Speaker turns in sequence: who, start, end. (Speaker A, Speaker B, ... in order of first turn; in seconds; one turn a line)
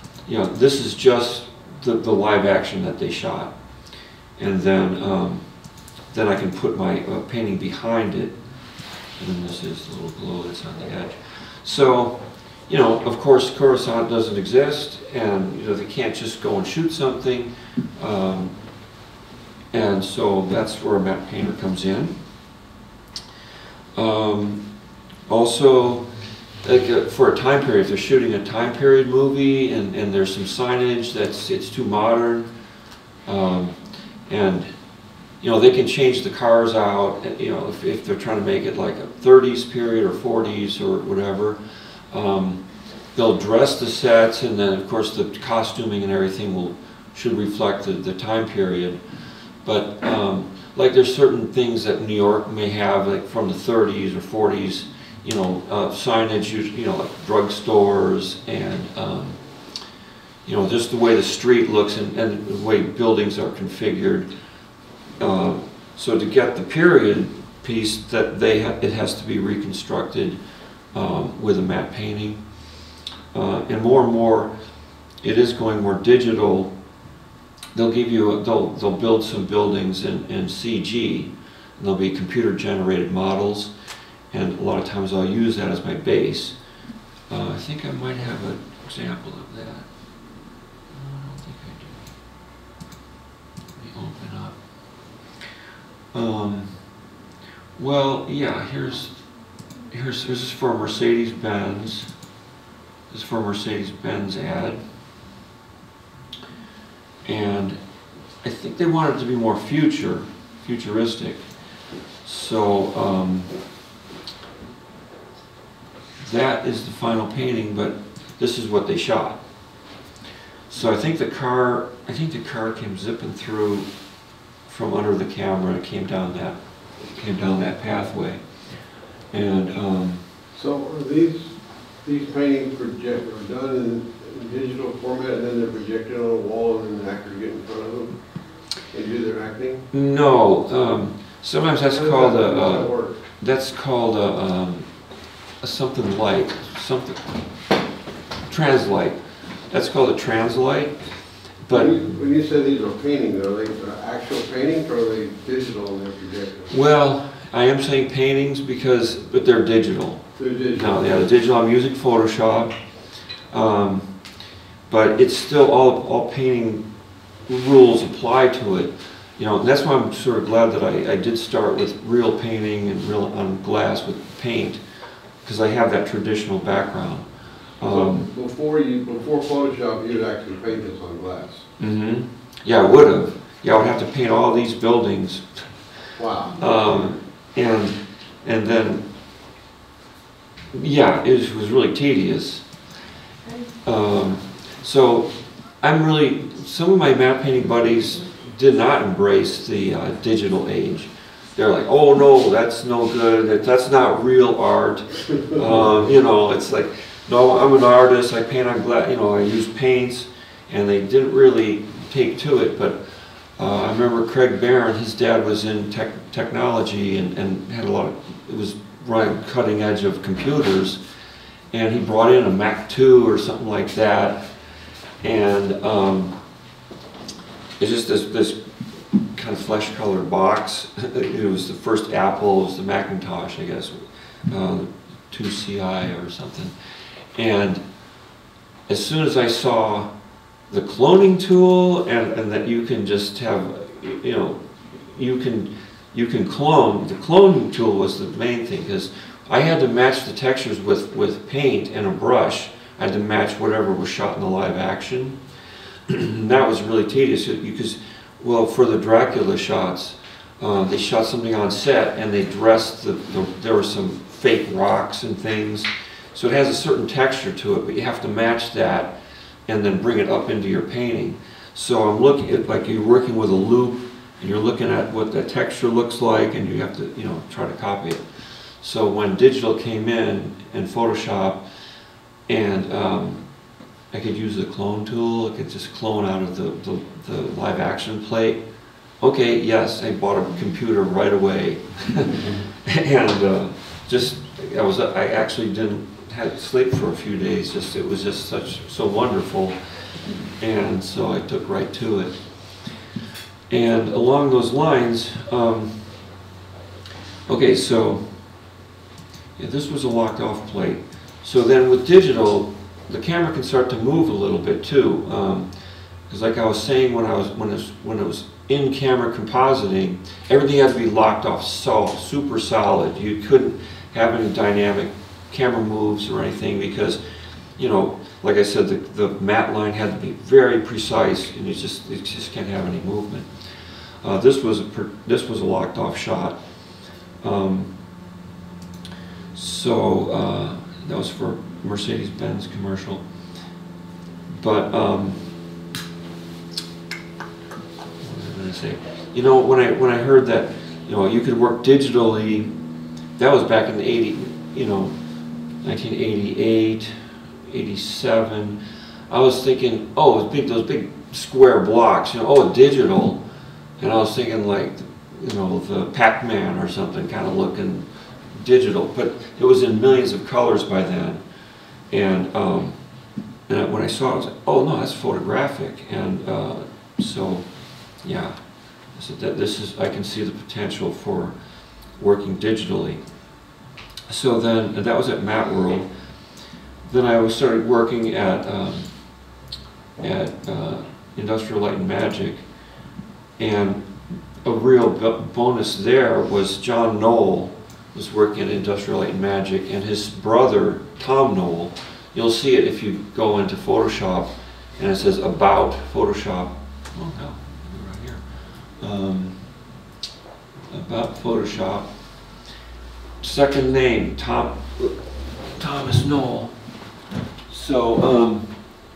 Speaker A: 0.3-3.5
Speaker A: 4.4-5.5
Speaker A: 6.1-8.4
Speaker A: 9.2-18.5
Speaker A: 19.7-22.1
Speaker A: 23.9-24.6
Speaker A: 25.3-26.1
Speaker A: 26.6-32.5
Speaker A: 33.3-33.8
Speaker A: 34.3-34.7
Speaker A: 35.4-41.6
Speaker A: 42.1-42.6
Speaker A: 43.1-49.0
Speaker A: 49.6-59.4
Speaker A: 60.5-64.3
Speaker A: 65.2-70.4
Speaker A: 70.9-72.4
Speaker A: 73.3-74.5
Speaker A: 75.2-76.7
Speaker A: 77.7-83.7
Speaker A: 84.3-86.6
Speaker A: 87.3-89.9
Speaker A: 90.9-92.0
Speaker A: 93.8-94.6
Speaker A: 96.1-96.7
Speaker A: 97.8-99.2
Speaker A: 99.9-102.1
Speaker A: 103.1-104.8
Speaker A: 107.2-107.8
Speaker A: 108.4-111.4
Speaker A: 112.2-113.5
Speaker A: 116.2-119.4
Speaker A: 120.7-123.9
Speaker A: 124.7-128.4
Speaker A: 129.3-130.2
Speaker B: 130.6-138.2
Speaker B: 138.9-139.9
Speaker A: 139.9-144.9
Speaker B: 141.9-143.2
Speaker A: 145.6-147.3
Speaker A: 148.5-149.2
Speaker A: 149.7-151.0
Speaker A: 151.6-152.1
Speaker B: 151.7-156.8
Speaker A: 156.7-160.2
Speaker B: 160.4-161.2
Speaker A: 160.8-162.8
Speaker A: 163.5-164.1
Speaker A: 164.9-166.8
Speaker A: 167.5-174.8
Speaker A: 175.4-177.3
Speaker A: 177.8-178.3
Speaker B: 177.8-181.7
Speaker A: 181.8-185.5
Speaker B: 186.2-187.1
Speaker A: 186.6-189.1
Speaker A: 190.7-192.6
Speaker A: 193.8-213.0
Speaker B: 205.6-205.9
Speaker A: 213.6-221.0
Speaker A: 221.7-224.4
Speaker A: 225.2-226.4
Speaker A: 227.8-228.6
Speaker A: 229.3-234.0
Speaker A: 234.5-236.7
Speaker A: 237.4-237.8
Speaker A: 238.9-240.1
Speaker A: 240.7-244.6
Speaker A: 245.1-255.4
Speaker A: 256.1-269.1
Speaker A: 269.7-278.2
Speaker A: 278.8-281.6
Speaker A: 282.5-283.4
Speaker A: 284.1-288.6
Speaker A: 289.2-299.8
Speaker A: 300.6-302.4
Speaker A: 303.7-306.0
Speaker A: 307.5-308.2
Speaker A: 309.6-315.7
Speaker A: 316.3-327.2
Speaker A: 327.8-333.5
Speaker A: 334.2-336.6
Speaker A: 337.4-337.9
Speaker A: 339.5-343.2
Speaker A: 344.5-345.4
Speaker A: 348.2-352.7
Speaker A: 353.4-355.1
Speaker A: 355.8-357.1
Speaker A: 357.7-363.4
Speaker A: 364.0-371.4
Speaker A: 372.1-373.0
Speaker A: 373.7-377.6
Speaker A: 378.2-378.6
Speaker A: 379.1-381.6
Speaker A: 382.2-383.2
Speaker A: 384.3-386.1
Speaker A: 387.1-389.1
Speaker A: 390.2-392.6
Speaker A: 393.6-394.1
Speaker A: 394.6-408.4
Speaker A: 409.0-409.6
Speaker A: 410.9-412.1
Speaker A: 413.4-416.8
Speaker A: 417.7-418.7